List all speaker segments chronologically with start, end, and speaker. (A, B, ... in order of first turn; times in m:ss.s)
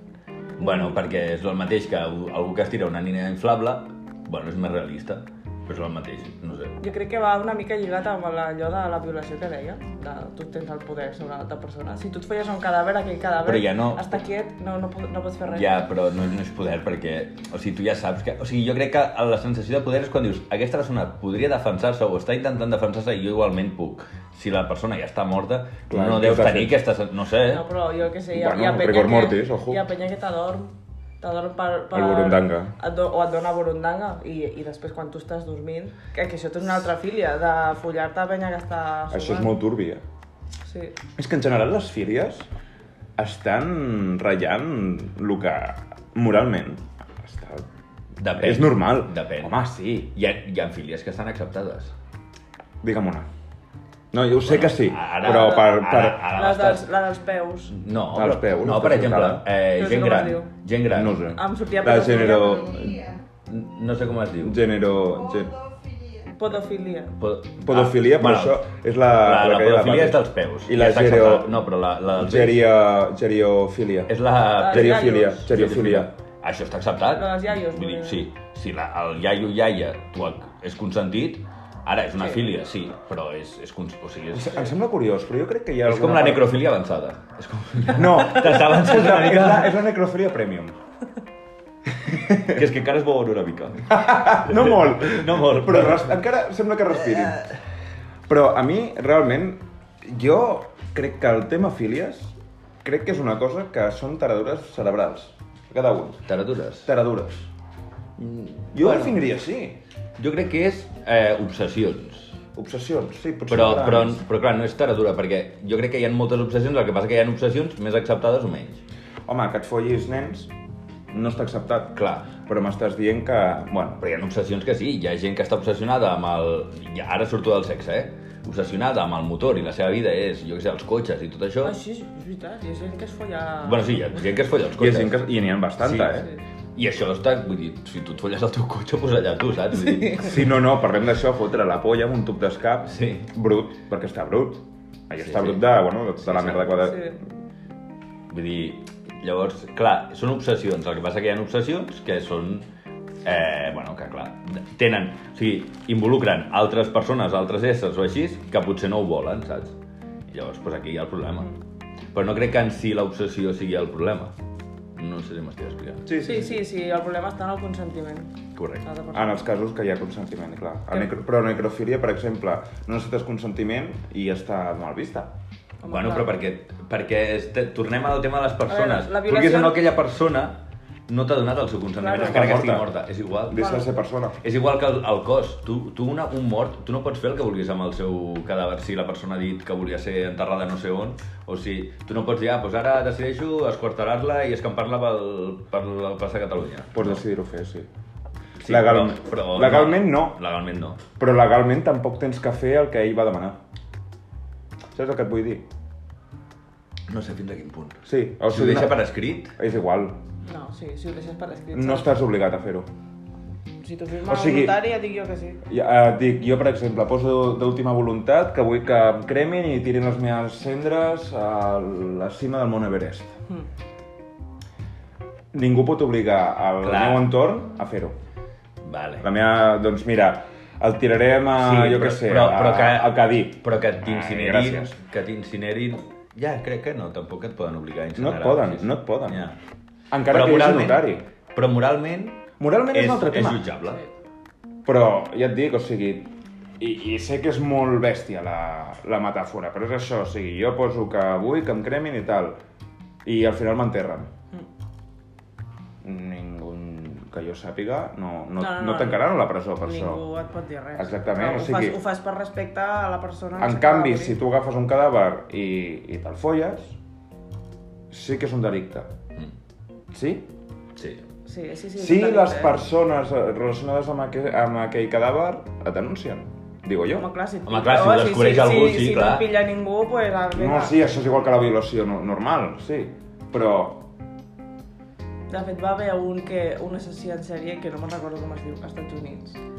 0:00.6-0:06.8 A
0:00.6-0:01.0 B
0:06.8-0:15.7 B
0:13.4-0:14.2 A
0:15.5-0:27.6 A
0:25.9-0:26.8 C
0:27.4-0:39.5 B
0:28.3-0:29.8 C
0:31.9-0:32.7 C
0:39.1-0:40.0 C
0:40.6-0:41.0 B
0:41.2-0:42.5 C
0:43.2-0:47.6 C
0:48.2-0:49.6 A
0:48.4-0:50.1 C
0:50.1-0:51.9 A
0:52.8-0:53.3 C
0:54.1-0:56.3 C
0:54.4-0:56.8 A
0:56.3-0:57.7 B
0:57.7-1:01.2 A
0:58.1-0:59.5 C
0:59.8-1:00.5 B
1:00.9-1:03.0 C
1:01.3-1:02.7 B
1:02.2-1:03.2 D
1:03.5-1:04.6 A
1:04.4-1:05.5 C
1:05.0-1:06.3 D
1:06.4-1:07.1 B
1:07.2-1:08.6 A
1:07.6-1:11.5 C
1:09.2-1:12.6 A
1:12.2-1:14.1 C
1:14.1-1:24.7 A
1:14.6-1:15.5 B
1:14.6-1:16.1 C
1:17.1-1:18.2 B
1:22.2-1:22.4 B
1:24.3-1:26.5 C
1:25.8-1:29.8 A
1:27.9-1:30.7 C
1:32.1-1:32.6 C
1:32.4-1:36.2 A
1:33.9-1:37.4 C
1:37.0-1:37.6 A
1:38.3-1:46.2 C
1:46.3-1:46.9 A
1:46.8-1:47.5 C
1:48.2-1:49.2 A
1:48.7-1:49.8 C
1:50.2-1:52.4 A
1:52.5-1:54.2 C
1:53.5-1:58.8 A
1:59.2-2:00.5 C
2:01.1-2:04.0 C
2:04.0-2:11.7 A
2:11.6-2:14.2 B
2:13.6-2:15.2 A
2:14.8-2:16.3 C
2:15.8-2:20.5 A
2:19.8-2:20.2 B
2:20.2-2:27.1 C
2:22.9-2:23.3 A
2:25.2-2:25.6 A
2:26.2-2:26.8 A
2:26.8-2:27.2 B
2:28.3-2:32.7 A
2:33.2-2:39.8 A
2:40.3-2:41.5 A
2:42.1-2:44.3 A
2:45.0-2:46.1 A
2:46.0-2:46.6 C
2:46.2-2:49.3 B
2:48.5-2:48.8 A
2:49.1-2:55.3 C
2:55.8-2:56.3 B
2:55.9-3:03.8 A
2:58.7-2:59.8 B
3:02.0-3:02.5 B
3:02.2-3:02.9 C
3:03.5-3:04.4 C
3:03.6-3:03.8 B
3:04.4-3:17.2 A
3:16.9-3:17.9 C
3:18.6-3:21.0 A
3:18.6-3:20.4 C
3:21.2-3:23.6 C
3:24.9-3:25.6 C
3:27.1-3:29.5 A
3:28.0-3:29.0 C
3:29.6-3:30.2 C
3:30.4-3:32.1 B
3:31.7-3:32.9 C
3:33.8-3:35.6 B
3:34.2-3:34.8 C
3:35.6-3:43.4 C
3:45.5-3:48.2 C
3:46.8-3:47.3 A
3:48.8-3:49.3 A
3:49.2-3:54.9 C
3:51.6-3:59.6 A
3:58.2-3:59.4 C
4:00.1-4:01.2 C
4:00.3-4:04.0 A
4:02.6-4:03.7 C
4:04.8-4:12.6 C
4:13.2-4:14.3 C
4:16.0-4:20.2 C
4:18.6-4:19.3 B
4:19.8-4:24.4 B
4:20.9-4:22.0 C
4:23.6-4:27.0 C
4:28.1-4:29.1 C
4:30.1-4:30.5 C
4:31.0-4:31.2 A
4:31.4-4:32.8 B
4:32.0-4:37.3 C
4:37.1-4:41.0 B
4:37.6-4:39.5 A
4:40.5-4:44.1 C
4:45.5-4:49.6 B